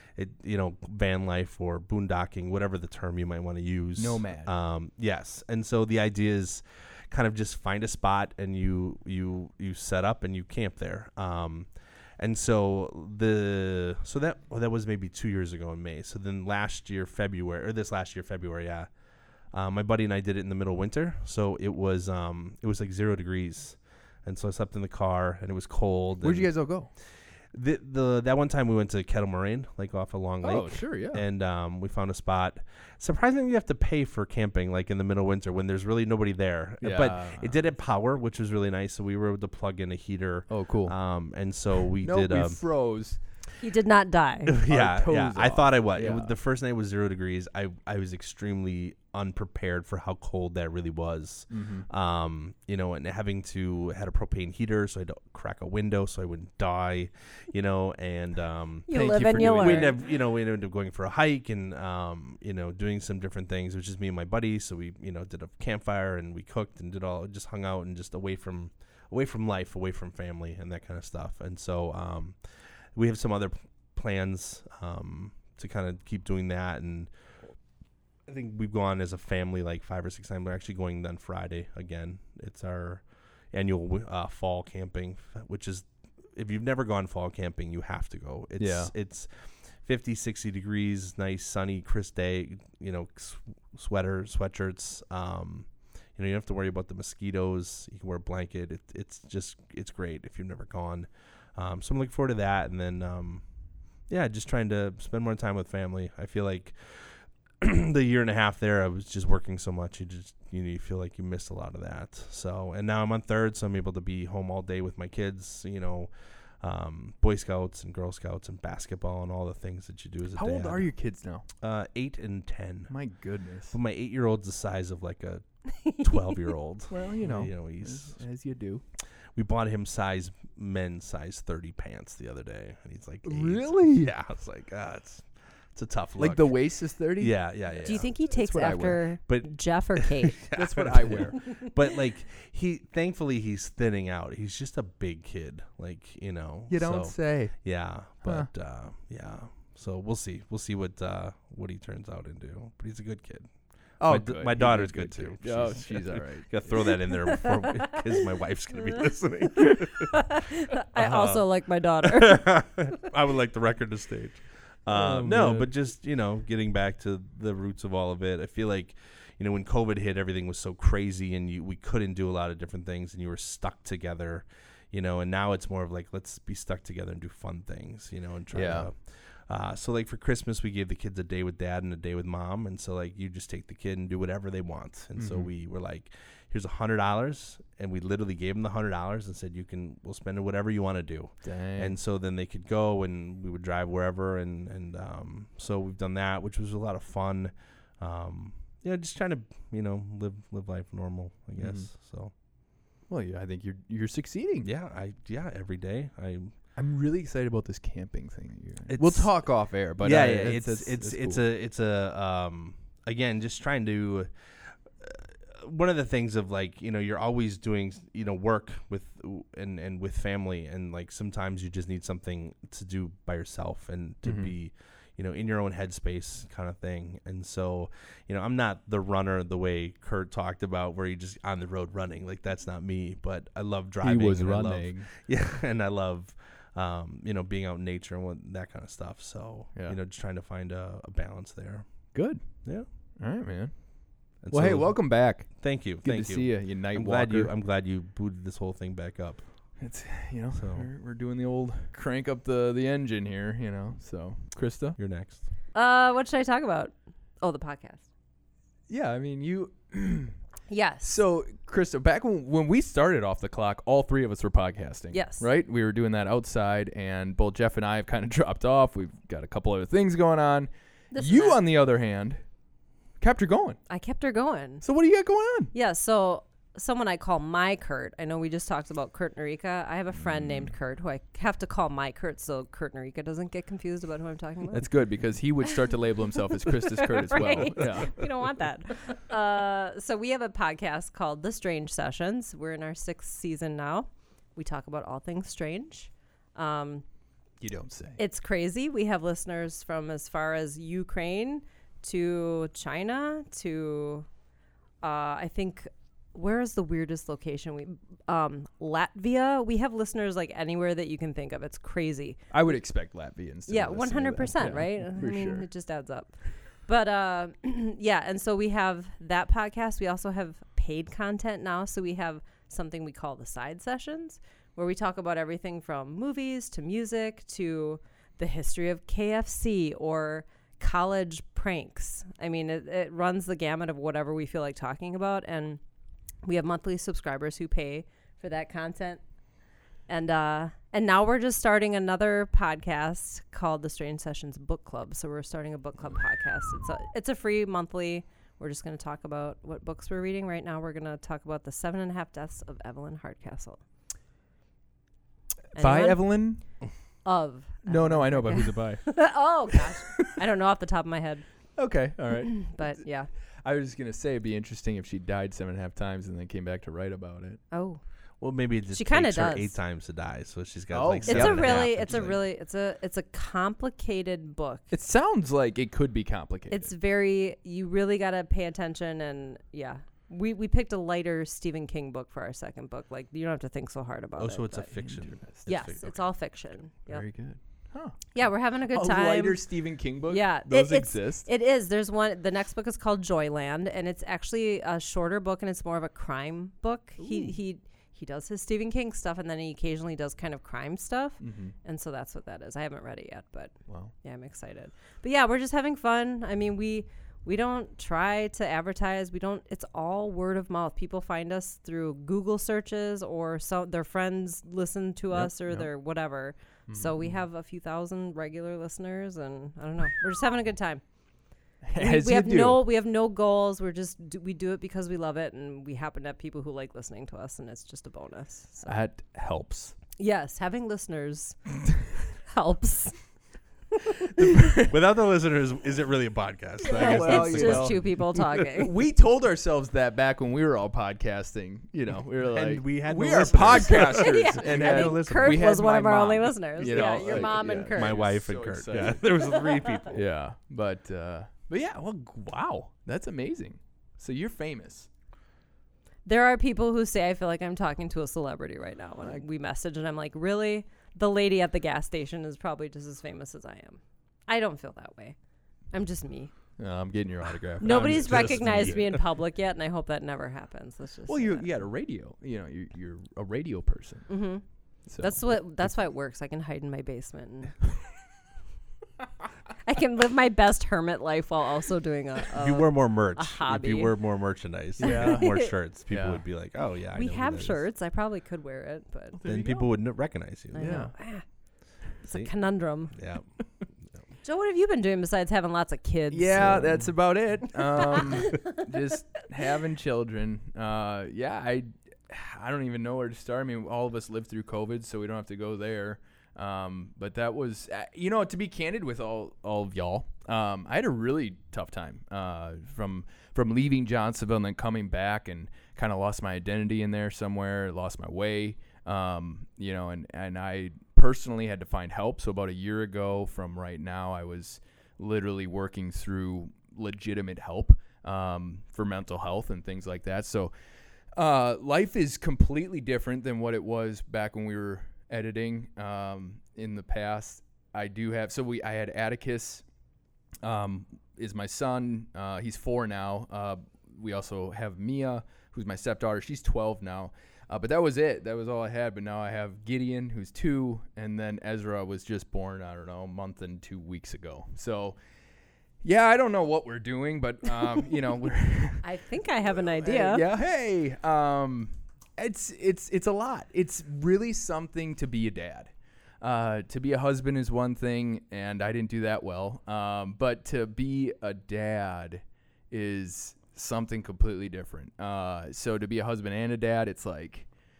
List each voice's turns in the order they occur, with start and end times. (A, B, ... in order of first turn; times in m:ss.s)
0:00.2-0:18.9 A
0:04.0-0:04.5 B
0:19.5-0:26.5 A
0:26.2-0:26.9 B
0:27.5-0:42.6 A
0:30.4-0:31.2 B
0:36.8-0:37.5 B
0:40.5-0:40.9 B
0:42.0-0:43.2 B
0:43.6-0:44.6 C
0:44.4-1:12.4 A
0:44.6-0:46.3 B
0:51.5-0:51.9 B
0:58.9-0:59.9 C
0:58.9-0:59.9 B
1:12.9-1:17.1 A
1:18.3-1:43.4 A
1:28.6-1:28.9 B
1:44.1-1:56.1 A
1:56.6-2:00.9 A
2:00.3-2:01.4 B
2:01.6-2:02.9 A
2:02.9-2:03.8 B
2:03.7-2:08.2 A
2:06.9-2:08.8 B
2:09.3-2:16.6 A
2:13.2-2:14.0 B
2:16.2-2:19.0 B
2:17.2-2:18.1 A
2:17.8-2:20.4 C
2:19.3-2:33.5 A
2:20.5-2:21.4 B
2:26.7-2:27.7 B
2:28.2-2:28.5 B
2:34.0-2:36.9 B
2:34.0-2:40.3 A
2:40.1-2:42.8 C
2:40.9-2:41.4 A
2:42.0-3:22.3 A
2:44.9-2:45.7 B
2:58.5-2:58.9 B
3:05.2-3:05.5 B
3:11.4-3:12.0 B
3:21.6-3:21.9 B
3:23.1-3:24.7 B
3:24.6-3:26.5 A
3:26.8-3:31.4 B
3:28.9-3:29.3 A
3:30.0-4:01.9 A
3:44.2-3:44.5 B
3:54.0-3:55.1 B
4:02.1-4:02.4 B
4:03.2-4:03.7 B
4:04.4-4:09.4 A
4:04.5-4:07.5 B
4:09.8-4:15.0 B
4:10.6-4:10.9 A
4:15.0-4:15.4 A
4:15.7-4:18.0 C
4:18.9-4:20.3 B
4:20.7-4:21.2 C
4:21.0-4:32.4 B
4:25.1-4:25.4 C
4:31.1-4:31.6 C
4:33.2-4:33.8 B
4:33.9-4:34.8 C
4:34.8-4:35.7 B
4:35.7-4:44.8 C
4:44.7-4:48.2 B
4:46.8-4:57.0 C
4:57.6-4:58.2 B
4:58.2-5:04.3 C
5:05.0-5:12.4 C
5:12.5-5:15.7 B
5:13.7-5:16.3 C
5:16.8-5:35.8 C
5:36.4-5:39.2 C
5:40.1-5:53.8 C
5:55.7-5:56.2 C
5:55.8-5:56.6 B
5:57.2-6:01.4 C
5:57.8-5:59.2 B
5:59.7-6:00.3 B
6:01.8-6:03.0 B
6:02.4-6:03.3 C
6:03.6-6:07.6 B
6:07.7-6:08.0 C
6:08.4-6:12.4 A
6:08.9-6:09.7 C
6:10.9-6:12.3 B
6:11.2-6:14.9 C
6:14.9-6:16.9 B
6:16.7-6:24.9 C
6:24.4-6:26.3 A
6:24.9-6:25.6 B
6:25.7-6:27.2 C
6:27.1-6:31.5 B
6:28.3-6:29.6 C
6:30.3-7:01.0 C
6:37.2-6:37.5 B
6:41.4-6:41.7 B
6:55.3-6:55.9 B
6:56.9-6:57.4 B
7:01.8-7:02.8 B
7:02.0-7:09.0 C
7:08.8-7:10.0 B
7:10.2-7:11.6 C
7:12.4-7:13.2 C
7:14.4-7:14.6 C
7:14.4-7:14.9 B
7:14.9-7:18.0 A
7:16.8-7:18.9 C
7:16.8-7:29.3 B
7:22.4-7:25.8 A
7:24.0-7:28.2 C
7:26.8-7:30.2 A
7:29.4-7:30.0 C
7:30.1-7:35.1 B
7:36.2-7:45.4 C
7:45.9-7:46.5 C
7:46.8-7:49.0 B
7:47.8-7:51.7 C
7:47.8-7:49.2 A
7:51.3-7:54.3 B
7:54.3-7:54.6 C
7:55.1-7:55.4 B
7:55.2-7:57.8 C
7:59.8-8:04.1 C
8:02.6-8:07.8 A
8:05.0-8:05.7 C
8:05.0-8:05.6 B
8:06.1-8:06.4 B
8:07.1-8:09.4 C
8:09.4-8:09.9 B
8:09.4-8:11.0 A
8:10.7-8:11.4 C
8:10.8-8:11.1 B
8:12.2-8:12.5 A
8:12.2-8:13.1 C
8:13.1-8:13.4 A
8:14.4-8:16.8 C
8:16.3-8:50.7 B
8:16.5-8:17.1 A
8:18.0-8:18.7 C
8:51.3-8:59.8 B
9:00.6-9:15.2 B
9:16.0-9:19.0 B
9:19.0-9:20.4 C
9:19.8-9:25.9 B
9:26.4-9:37.7 B